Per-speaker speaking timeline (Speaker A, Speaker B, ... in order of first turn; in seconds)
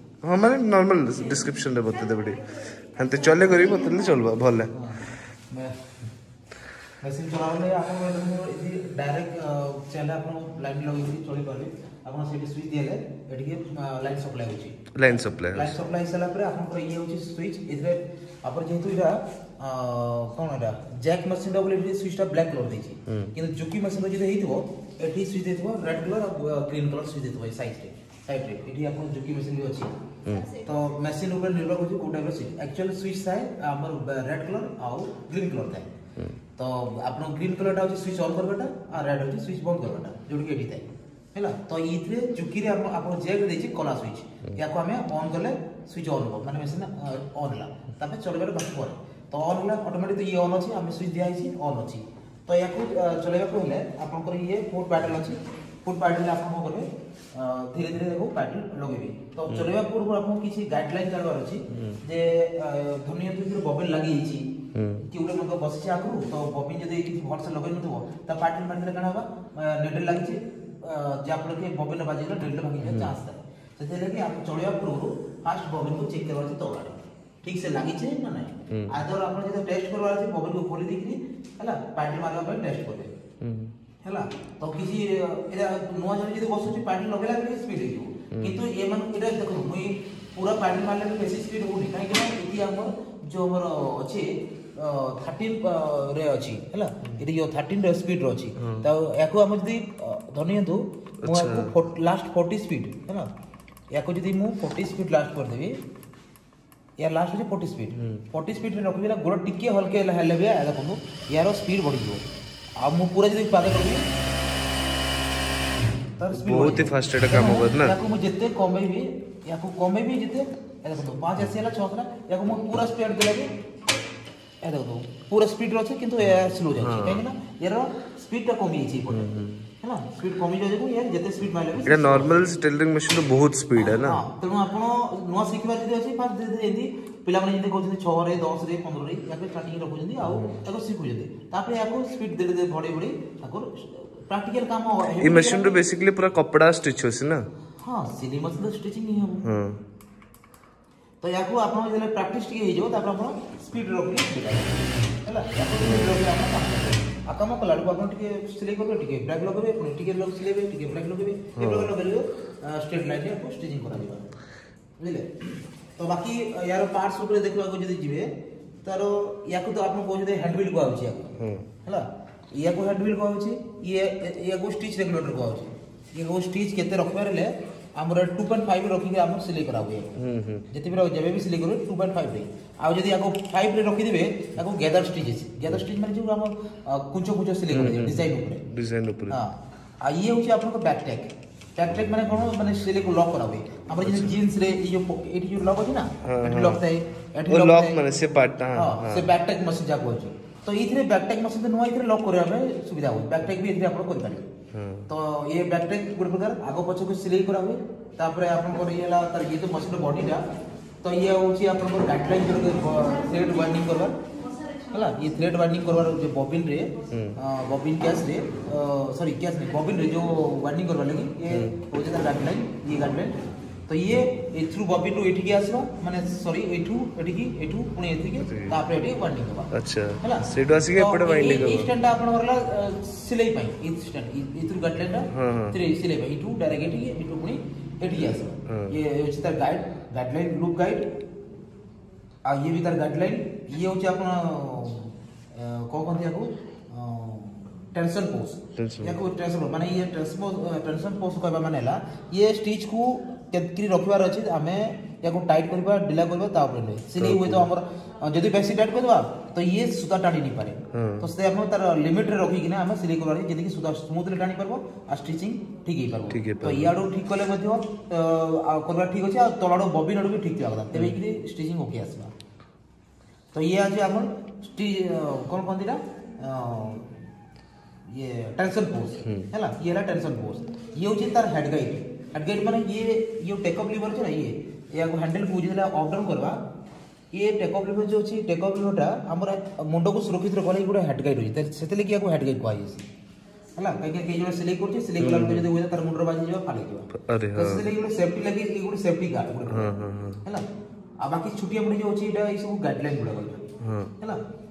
Speaker A: 0.2-4.7, 15.0-15.8, 30.2-30.6, 61.7-62.0, 64.8-65.1, 72.8-73.1, 83.4-83.7, 88.3-88.6, 101.2-101.7, 108.0-108.2, 116.3-118.0, 126.8-127.2, 129.1-129.7, 131.8-134.2, 140.2-140.6, 145.2-147.4, 149.4-149.8, 155.8-156.2, 161.6-161.9, 171.4-171.7, 180.2-180.7, 187.7-189.4, 194.0-194.4, 196.2-196.8, 197.5-199.3, 204.7-205.1, 217.1-217.4, 228.4-228.8, 229.7-231.9, 235.3-235.8, 238.7-238.9, 248.8-249.2, 257.2-257.7, 260.9-261.3, 266.3-266.9, 295.2-295.7, 297.1-297.9, 299.7-300.4, 303.8-304.1
Speaker B: 4.7-5.8, 7.0-29.9, 30.5-35.9, 36.6-64.5, 65.0-83.2, 84.0-103.3, 103.9-105.8, 107.0-112.2, 112.8-114.0, 116.2-123.5, 124.6-129.3, 129.8-132.5, 133.8-145.9, 147.8-149.5, 151.2-164.3, 165.0-168.3, 168.8-180.2, 180.7-188.7, 189.3-198.0, 198.8-204.5, 205.1-210.4, 211.0-214.2, 214.9-223.4, 223.9-241.1, 242.5-272.3, 273.5-277.1, 278.1-286.6, 287.3-293.1, 293.8-300.6, 301.2-303.6